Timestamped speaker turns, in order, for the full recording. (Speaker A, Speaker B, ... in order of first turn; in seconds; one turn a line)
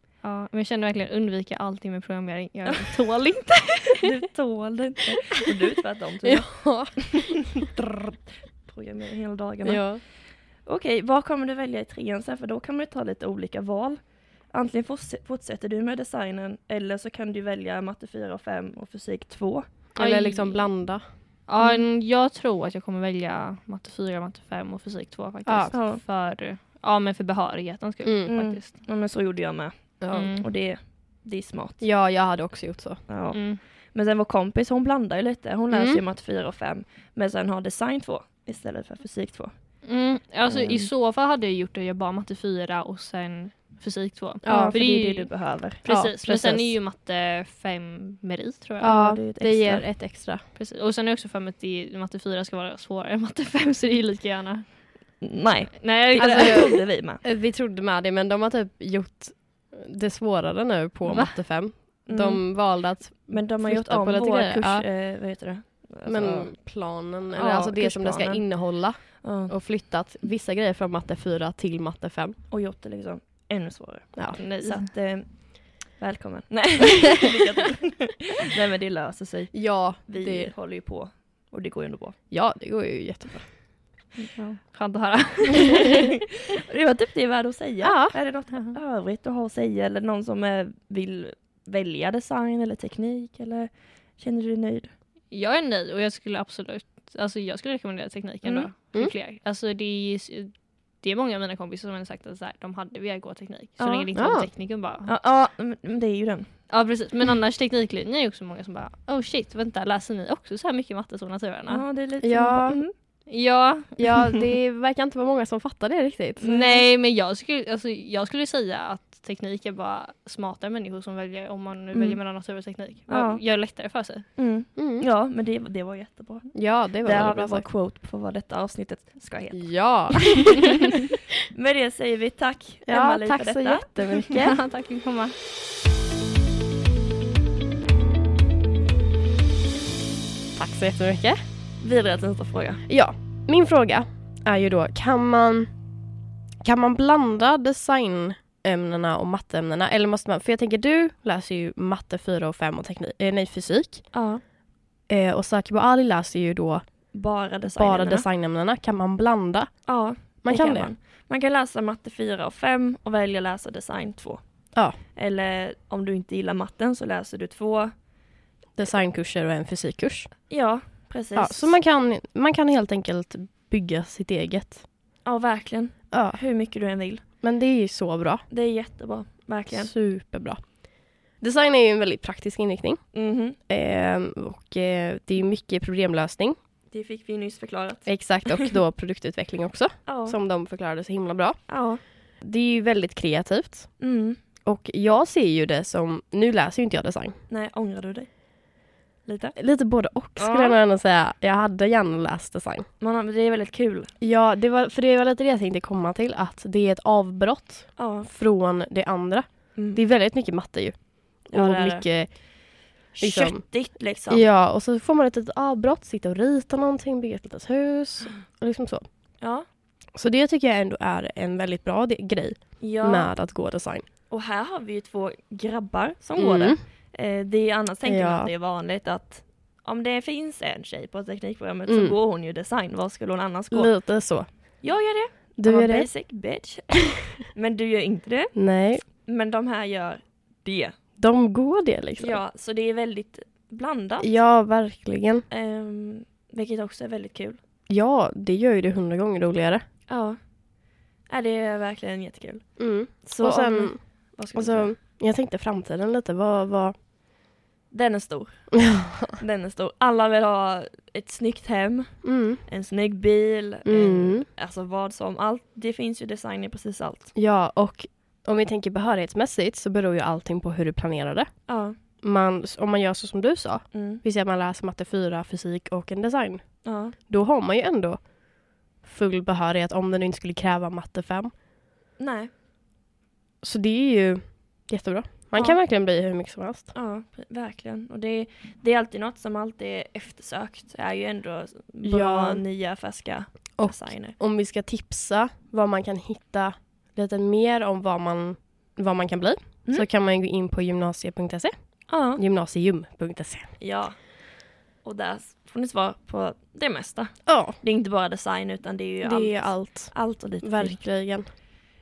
Speaker A: 0.2-4.0
Speaker B: 4.0-19.8
Speaker C: 6.2-7.3
Speaker C: 9.6-10.0
Speaker C: 19.9-21.0
Speaker A: 20.0-20.7
Speaker A: 21.4-28.8
Speaker C: 25.4-25.7
Speaker B: 25.7-26.0
Speaker C: 28.0-28.3
Speaker B: 28.3-31.8
Speaker C: 30.0-30.3
Speaker A: 30.1-30.4
Speaker C: 31.8-33.0
Speaker B: 33.1-39.5
Speaker A: 33.3-33.6
Speaker C: 35.7-36.0
Speaker A: 39.8-48.9
Speaker C: 44.4-45.1
Speaker B: 44.5-45.8
Speaker C: 45.8-46.8
Speaker C: 48.8-50.5
Speaker B: 48.8-49.9
Speaker A: 50.2-54.9
Speaker B: 55.2-57.2
Speaker A: 55.8-56.7
Speaker C: 56.1-64.9
Speaker A: 61.1-61.9
Speaker B: 62.1-62.6
Speaker B: 63.3-66.5
Speaker C: 66.0-72.4
Speaker B: 67.3-69.5
Speaker B: 72.5-82.2
Speaker C: 74.1-74.4
Speaker A: 74.5-74.9
Speaker C: 79.5-80.5
Speaker C: 82.3-83.7
Speaker A: 84.2-86.0
Speaker B: 85.7-94.9
Speaker C: 87.8-88.2
Speaker A: 95.3-105.1
Speaker B: 98.4-98.7
Speaker B: 103.8-104.1
Speaker C: 104.1-104.5
Speaker B: 105.0-106.6
Speaker A: 106.7-111.8
Speaker B: 111.7-112.9
Speaker C: 112.2-112.8
Speaker A: 113.3-114.1
Speaker C: 114.0-116.4
Speaker B: 116.4-116.9
Speaker A: 116.4-124.3
Speaker B: 121.9-122.2
Speaker B: 123.1-123.4
Speaker B: 124.3-130.5
Speaker C: 124.8-125.1
Speaker C: 126.5-127.6
Speaker C: 129.5-130.8
Speaker B: 131.5-134.5
Speaker C: 132.8-134.5
Speaker A: 134.4-135.3
Speaker C: 140.5-141.4
Speaker B: 141.8-142.8
Speaker C: 142.9-145.7
Speaker C: 146.6-154.2
Speaker B: 154.1-154.4
Speaker C: 155.1-156.8
Speaker B: 157.1-158.2
Speaker C: 157.7-160.9
Speaker B: 159.8-167.9
Speaker C: 168.7-170.3
Speaker B: 170.5-171.8
Speaker C: 171.3-174.8
Speaker B: 175.2-177.2
Speaker C: 176.1-176.4
Speaker C: 177.4-178.4
Speaker B: 178.5-179.9
Speaker C: 179.7-183.1
Speaker B: 183.1-183.6
Speaker C: 183.7-186.6
Speaker B: 186.9-188.6
Speaker C: 188.1-194.0
Speaker B: 190.1-190.4
Speaker B: 191.7-192.0
Speaker B: 194.0-194.4
Speaker C: 194.6-197.4
Speaker B: 197.5-199.5
Speaker C: 199.6-202.9
Speaker B: 200.4-200.8
Speaker B: 203.0-204.1
Speaker C: 204.2-219.1
Speaker B: 207.9-208.3
Speaker B: 209.7-210.0
Speaker B: 211.5-212.1
Speaker B: 213.1-214.5
Speaker B: 219.4-219.7
Speaker C: 220.1-224.0
Speaker B: 222.8-223.3
Speaker B: 224.3-234.0
Speaker C: 226.3-226.8
Speaker C: 228.0-228.5
Speaker C: 231.9-232.2
Speaker C: 233.7-234.8
Speaker B: 234.8-238.5
Speaker C: 235.6-236.1
Speaker C: 238.5-239.0
Speaker B: 239.0-240.9
Speaker C: 241.2-242.4
Speaker B: 242.2-244.4
Speaker C: 244.2-245.4
Speaker B: 245.5-247.6
Speaker C: 247.9-249.8
Speaker B: 250.1-250.6
Speaker B: 251.2-255.0
Speaker C: 252.8-257.0
Speaker B: 257.9-267.3
Speaker C: 258.9-259.2
Speaker C: 262.2-262.6
Speaker C: 263.8-264.5
Speaker C: 267.3-281.5
Speaker B: 271.7-271.9
Speaker B: 273.9-274.2
Speaker B: 276.8-277.1
Speaker B: 282.2-282.5
Speaker C: 283.6-286.9
Speaker B: 285.5-285.8
Speaker B: 286.9-294.4
Speaker C: 292.0-292.6
Speaker C: 293.8-303.8
Speaker B: 302.1-302.4
Speaker B: 303.8-311.0
Speaker C: 307.5-307.8
Speaker C: 309.2-311.5